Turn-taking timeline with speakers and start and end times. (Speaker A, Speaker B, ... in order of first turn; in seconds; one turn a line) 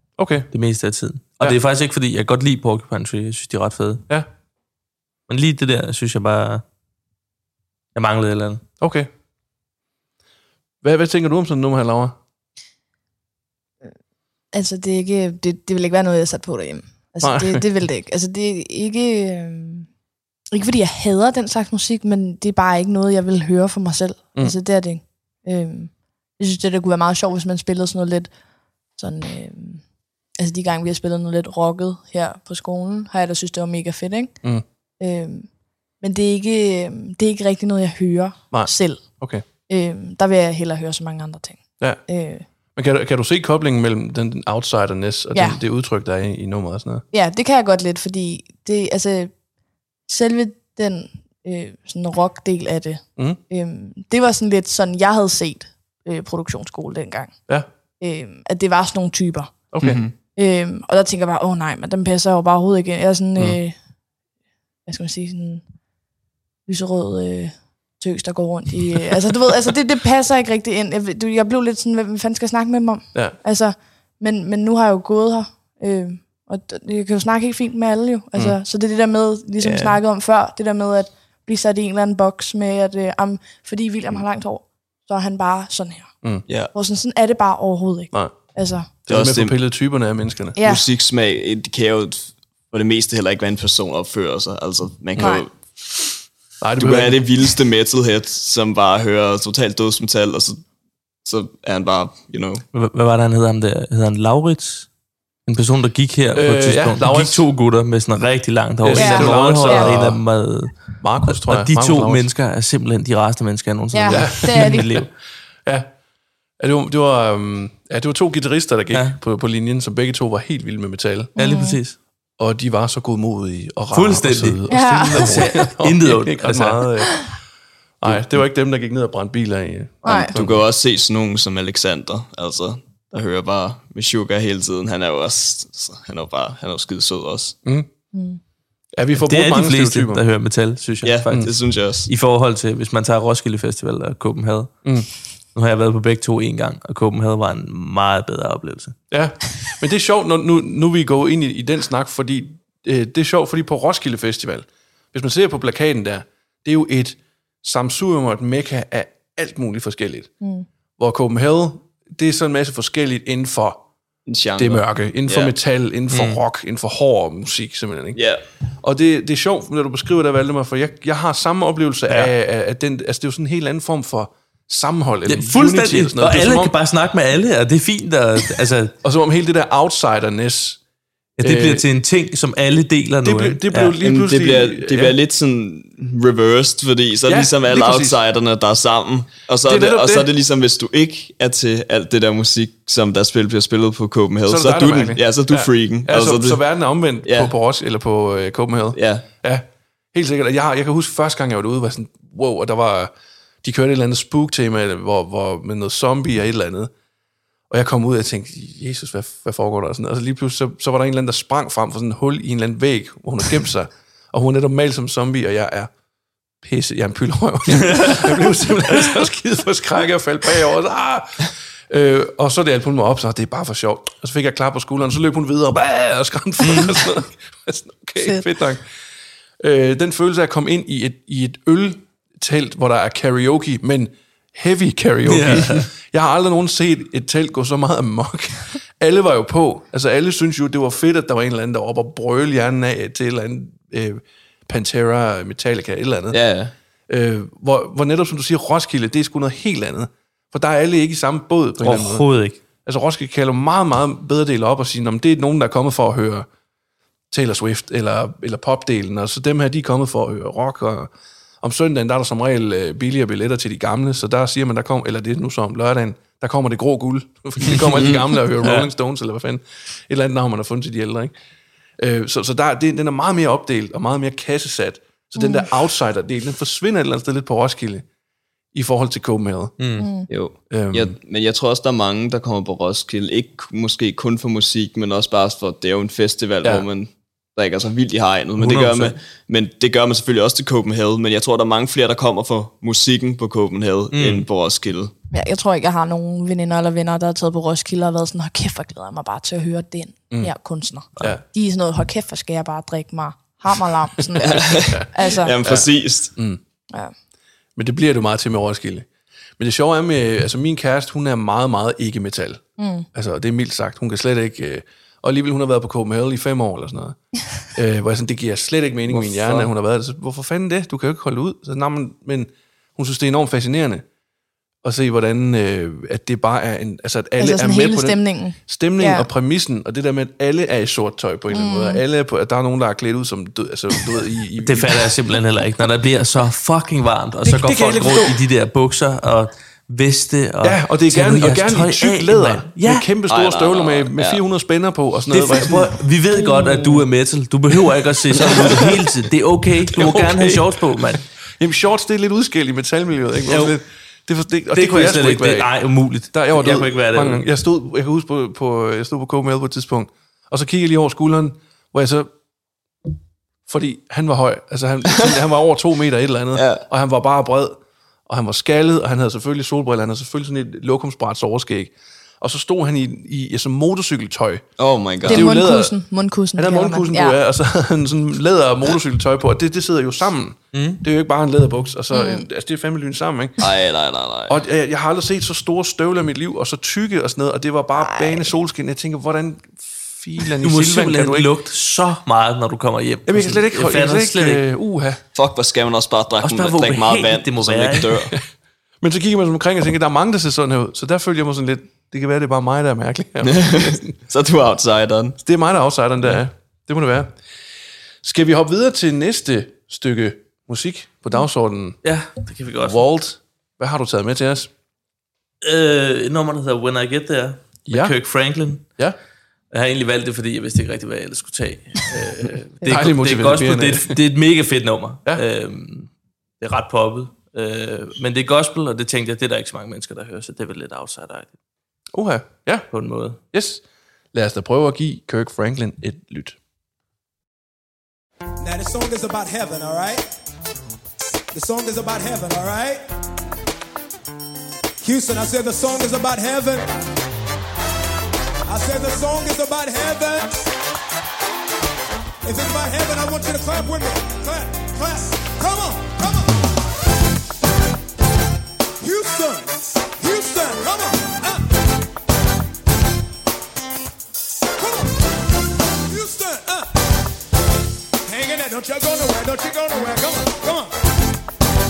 Speaker A: 0.2-0.5
Speaker B: 0.5-4.0
Speaker B: 5.3-6.6
Speaker B: 7.9-8.6
Speaker A: 8.8-9.1
Speaker A: 10.8-12.2
Speaker C: 14.5-19.9
Speaker A: 17.2-17.6
Speaker C: 20.5-28.3
Speaker C: 28.9-29.9
Speaker C: 30.4-34.3
Speaker C: 35.0-35.5
Speaker C: 36.0-39.0
Speaker A: 38.5-39.4
Speaker C: 39.7-42.5
Speaker A: 42.7-47.0
Speaker C: 45.3-45.6
Speaker C: 47.1-49.3
Speaker C: 50.1-57.3
Speaker C: 58.0-59.5
Speaker A: 59.7-60.0
Speaker D: 59.8-60.1
Speaker C: 60.4-63.8
Speaker C: 64.8-65.6
Speaker C: 66.7-86.1
Speaker B: 79.6-80.0
Speaker C: 86.7-88.9
Speaker A: 89.0-90.6
Speaker D: 89.1-89.5
Speaker C: 90.5-90.8
Speaker D: 90.6-96.1
Speaker C: 95.2-95.4
Speaker A: 96.6-97.3
Speaker D: 96.8-100.6
Speaker D: 101.2-102.6
Speaker B: 102.7-104.9
Speaker B: 105.5-115.1
Speaker A: 106.3-107.4
Speaker A: 108.8-110.2
Speaker C: 108.9-109.9
Speaker A: 111.0-112.3
Speaker C: 113.9-114.8
Speaker A: 114.1-115.1
Speaker A: 115.6-115.9
Speaker A: 116.6-121.7
Speaker B: 118.9-119.2
Speaker B: 121.3-122.0
Speaker C: 121.4-121.8
Speaker A: 122.4-127.3
Speaker B: 123.9-126.9
Speaker C: 124.7-125.7
Speaker A: 128.0-130.6
Speaker C: 130.0-130.3
Speaker D: 130.1-137.6
Speaker C: 138.1-138.4
Speaker A: 138.9-140.2
Speaker B: 139.2-141.4
Speaker D: 141.0-142.1
Speaker B: 142.1-144.7
Speaker B: 145.5-149.0
Speaker A: 149.1-160.3
Speaker C: 160.4-160.7
Speaker A: 161.0-163.8
Speaker D: 164.3-165.5
Speaker A: 164.6-168.2
Speaker B: 166.1-166.4
Speaker D: 168.2-168.4
Speaker A: 168.8-176.7
Speaker B: 175.3-178.9
Speaker A: 179.0-180.8
Speaker B: 181.4-183.9
Speaker A: 181.4-181.8
Speaker A: 183.2-185.2
Speaker D: 184.0-196.6
Speaker A: 187.2-188.2
Speaker A: 189.6-190.3
Speaker A: 194.4-206.9
Speaker D: 197.2-197.5
Speaker D: 198.9-199.2
Speaker A: 207.7-215.9
Speaker A: 216.6-228.8
Speaker B: 226.6-227.0
Speaker A: 229.6-246.4
Speaker B: 235.3-235.9
Speaker D: 246.3-246.7
Speaker A: 247.1-252.3
Speaker B: 251.8-252.6
Speaker A: 252.8-256.5
Speaker A: 257.3-271.3
Speaker D: 267.9-268.2
Speaker A: 272.0-278.1
Speaker C: 275.4-275.7
Speaker A: 278.7-279.8
Speaker B: 279.8-280.1
Speaker C: 280.0-280.3
Speaker D: 280.3-295.1
Speaker A: 280.7-281.1
Speaker B: 288.6-289.1
Speaker B: 294.1-294.4
Speaker C: 295.3-305.5
Speaker D: 304.4-306.3
Speaker A: 304.6-306.6
Speaker A: 307.8-324.0
Speaker C: 312.8-313.1
Speaker D: 319.1-319.7
Speaker A: 324.8-335.1
Speaker C: 327.4-329.3
Speaker C: 331.5-332.0
Speaker B: 334.6-343.1
Speaker A: 337.4-338.4
Speaker A: 340.6-346.0
Speaker D: 343.3-344.4
Speaker B: 345.3-351.2
Speaker C: 346.4-346.9
Speaker A: 348.4-348.8
Speaker D: 348.5-348.9
Speaker A: 349.8-355.7
Speaker B: 353.5-353.8
Speaker B: 354.7-357.4
Speaker A: 356.3-362.3
Speaker A: 363.7-374.6
Speaker D: 366.5-366.9
Speaker D: 374.8-375.5
Speaker A: 375.2-375.9
Speaker C: 375.3-377.4
Speaker A: 376.5-383.6
Speaker B: 380.7-381.0
Speaker C: 382.1-382.4
Speaker D: 383.6-384.6
Speaker A: 384.5-391.5
Speaker C: 387.9-388.6
Speaker B: 390.6-394.6
Speaker A: 393.3-395.2
Speaker D: 395.3-398.3
Speaker B: 396.4-398.3
Speaker A: 399.0-404.1
Speaker D: 403.4-405.4
Speaker A: 405.4-407.4
Speaker A: 408.2-412.0
Speaker B: 412.0-413.1
Speaker A: 412.8-414.7
Speaker B: 415.6-418.8
Speaker A: 417.9-418.2
Speaker B: 419.7-431.5
Speaker A: 422.1-424.2
Speaker A: 432.1-432.9
Speaker B: 432.9-433.4
Speaker A: 433.5-436.6
Speaker E: 438.6-440.2
Speaker E: 441.5-443.0
Speaker E: 445.0-446.9
Speaker E: 448.6-450.5
Speaker E: 452.4-456.6
Speaker E: 459.0-461.6
Speaker E: 464.8-465.2
Speaker E: 466.1-466.9
Speaker E: 468.2-470.9